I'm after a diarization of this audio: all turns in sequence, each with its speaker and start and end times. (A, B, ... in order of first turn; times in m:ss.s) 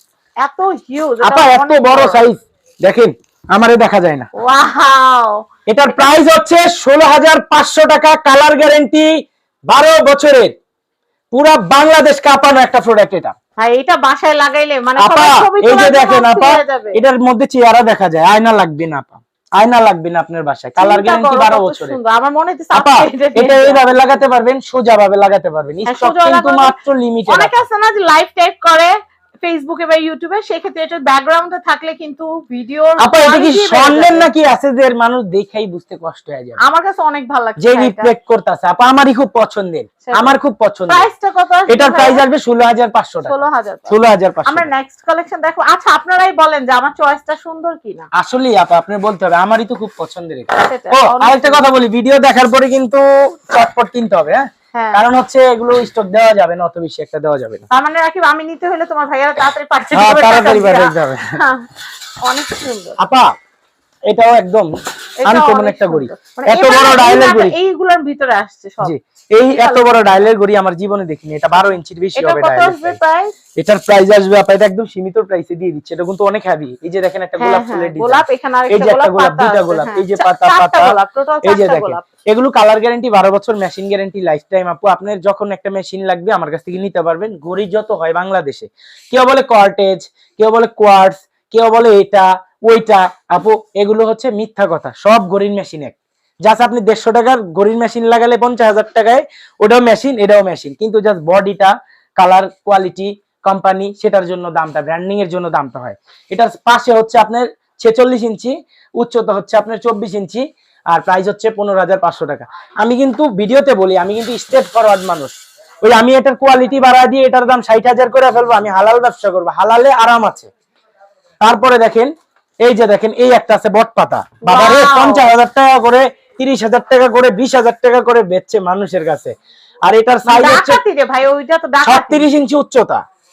0:00.4-0:02.2 A
0:01.2-0:04.3 B
0:04.4-0:06.1 A
0:05.7-0:09.1 B
0:09.7-0:10.5 B
0:11.3-0:13.3 B
0:13.6-0:17.0 A
0:15.0-0:22.0 B
0:20.8-0:23.8 A
0:22.7-0:27.5 B
0:25.8-0:26.8 A
0:27.3-0:34.3 A
0:33.0-0:36.6 B
0:36.6-0:38.1 A
0:37.6-0:41.1 B
0:40.0-0:40.4 A
0:40.9-0:42.2 A
0:41.7-0:44.7 B
0:43.2-0:48.1 A
0:48.2-0:57.6 B
0:50.6-0:51.6 A
0:54.7-0:55.0 A
0:57.7-1:01.7 A
0:59.9-1:01.4 B
1:02.2-1:03.0 A
1:03.0-1:03.3 B
1:04.1-1:04.7 B
1:05.2-1:08.9 A
1:05.2-1:07.6 B
1:08.8-1:13.0 B
1:09.5-1:10.3 A
1:12.2-1:13.3 A
1:13.6-2:00.5 B
1:17.4-1:22.0 A
2:01.4-2:02.1 B
2:02.6-2:09.3 B
2:04.4-2:05.3 A
2:09.8-2:10.8 B
2:10.2-2:12.3 A
2:11.8-2:13.0 B